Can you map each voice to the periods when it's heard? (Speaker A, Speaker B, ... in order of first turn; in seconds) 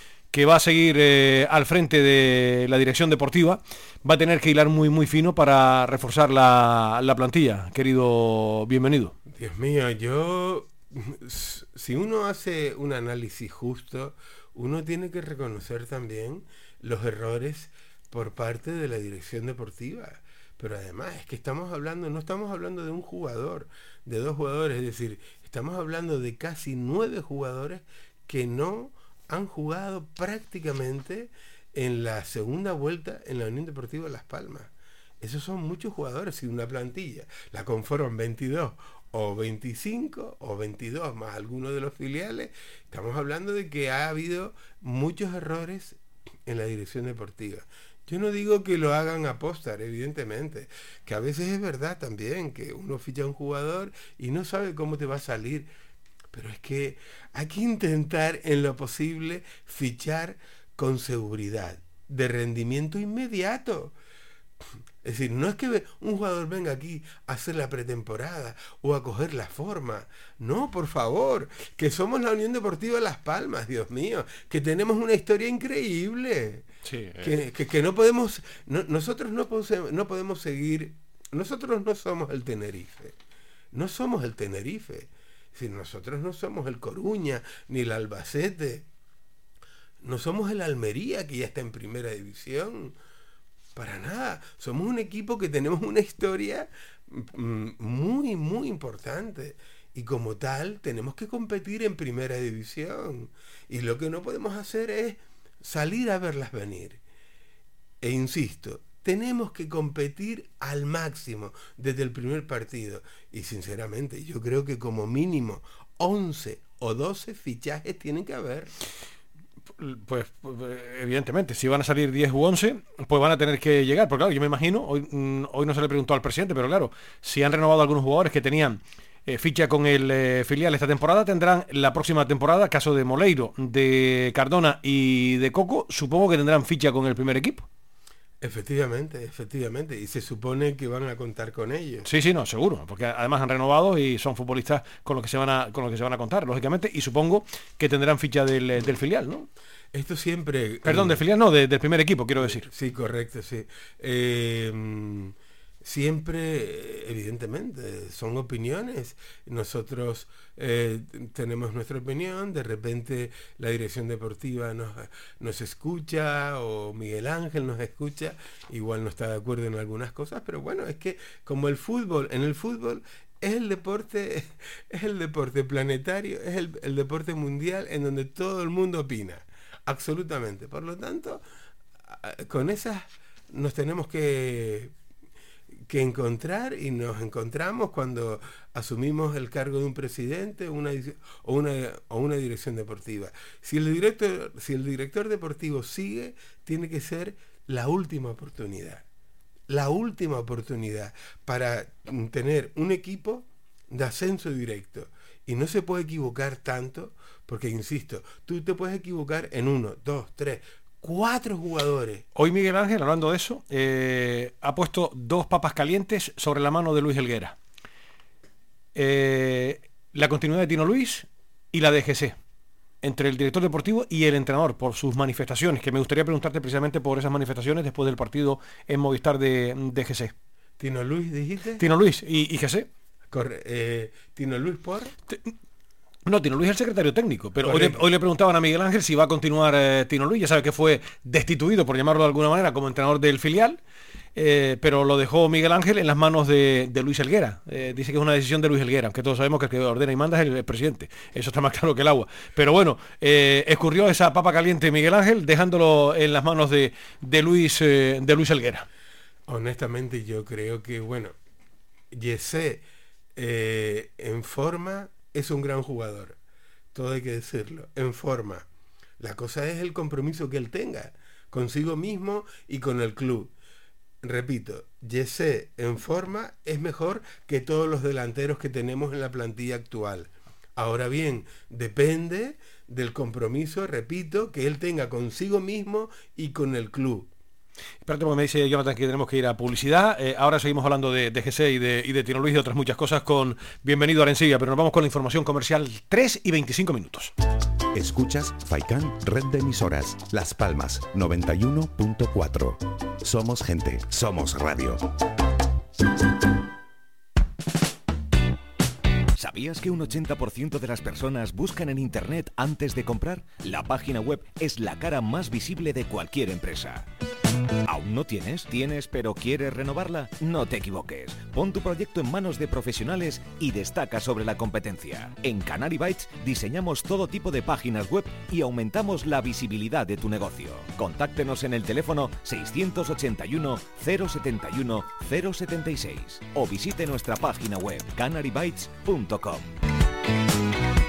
Speaker A: 0.3-9.2, 76.9-77.4, 119.8-137.7, 142.1-149.5, 150.8-152.7, 212.3-217.6, 218.9-222.4, 223.0-230.3, 231.8-232.9, 236.3-243.8, 244.3-258.9, 288.0-297.3
Speaker B: 9.3-55.7, 56.3-64.0, 65.0-76.7, 77.2-83.2, 83.7-88.8, 90.0-92.9, 93.8-107.0, 108.0-118.7, 138.4-142.1, 149.9-151.2, 152.4-181.4, 182.1-184.9, 185.9-199.0, 199.7-212.2, 230.8-231.8, 233.3-235.1, 237.6-238.0, 259.5-261.3, 262.1-262.8, 263.4-266.4, 266.9-268.6, 269.2-273.5, 274.2-287.3
Speaker C: 297.9-305.0
Speaker D: 309.4-317.1, 317.9-339.8